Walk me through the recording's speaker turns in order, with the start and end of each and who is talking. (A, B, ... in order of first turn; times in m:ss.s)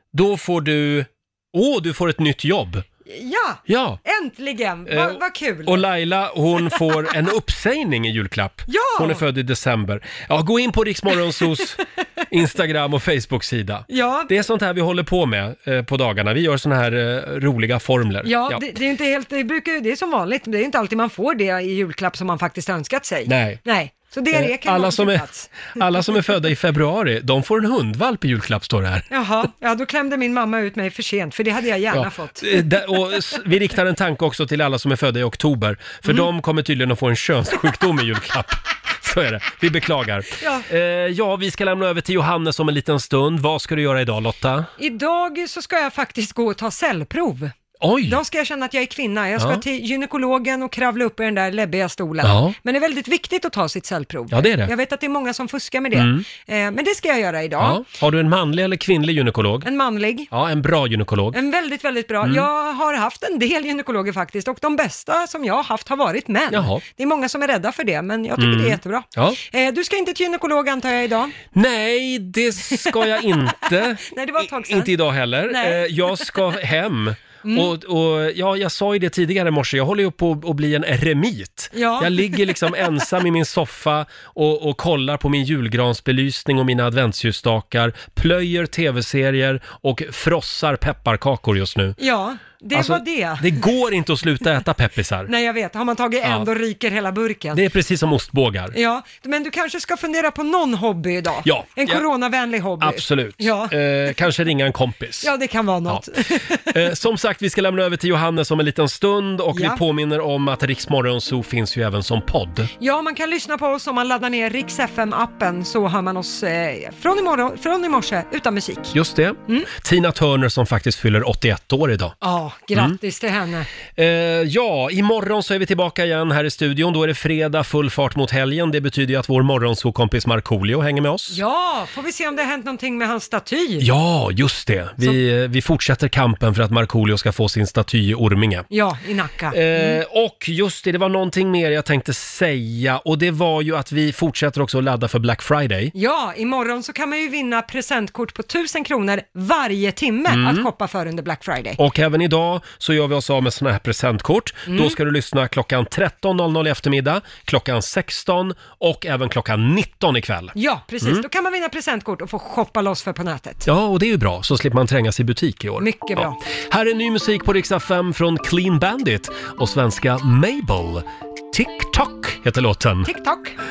0:00.1-0:02.8 A
0:03.1-0:05.9 B
0:03.7-0:04.0 A
0:04.9-0:18.8 A
0:08.7-0:09.2 B
0:13.9-0:14.3 B
0:18.2-0:25.8 B
0:23.3-0:23.6 A
0:24.3-0:29.1 A
0:29.1-0:32.7 B
0:31.9-0:44.7 A
0:40.4-0:40.7 B
0:44.8-0:47.5 B
0:47.8-0:48.2 A
0:48.1-0:57.8 B
0:52.2-0:52.6 A
0:54.3-0:54.7 A
0:56.0-0:56.2 A
0:57.6-0:59.7 A
0:59.6-1:00.3 B
1:00.3-1:01.4 A
1:01.3-1:11.4 B
1:06.5-1:06.8 A
1:08.4-1:09.4 A
1:11.6-1:32.0 A
1:14.0-1:14.9 B
1:15.5-1:16.2 B
1:17.4-1:17.7 B
1:21.7-1:22.5 B
1:32.0-1:33.6 B
1:32.7-1:35.3 A
1:35.3-1:37.6 B
1:37.5-1:38.8 A
1:38.7-1:43.7 B
1:41.4-1:42.0 A
1:42.8-1:45.3 A
1:45.2-1:46.7 B
1:46.7-1:52.7 A
1:49.5-1:49.8 B
1:52.8-1:58.9 B
1:58.9-2:02.2 A
2:02.2-2:03.7 B
2:04.0-2:11.4 A
2:11.3-2:13.9 B
2:13.8-2:18.7 A
2:18.7-2:19.6 B
2:19.5-2:25.9 A
2:25.9-2:31.8 B
2:30.3-2:30.7 A
2:31.8-2:41.2 A
2:34.7-2:35.0 B
2:40.6-2:43.7 B
2:43.6-2:53.1 A
2:45.8-2:46.4 B
2:53.0-2:53.6 B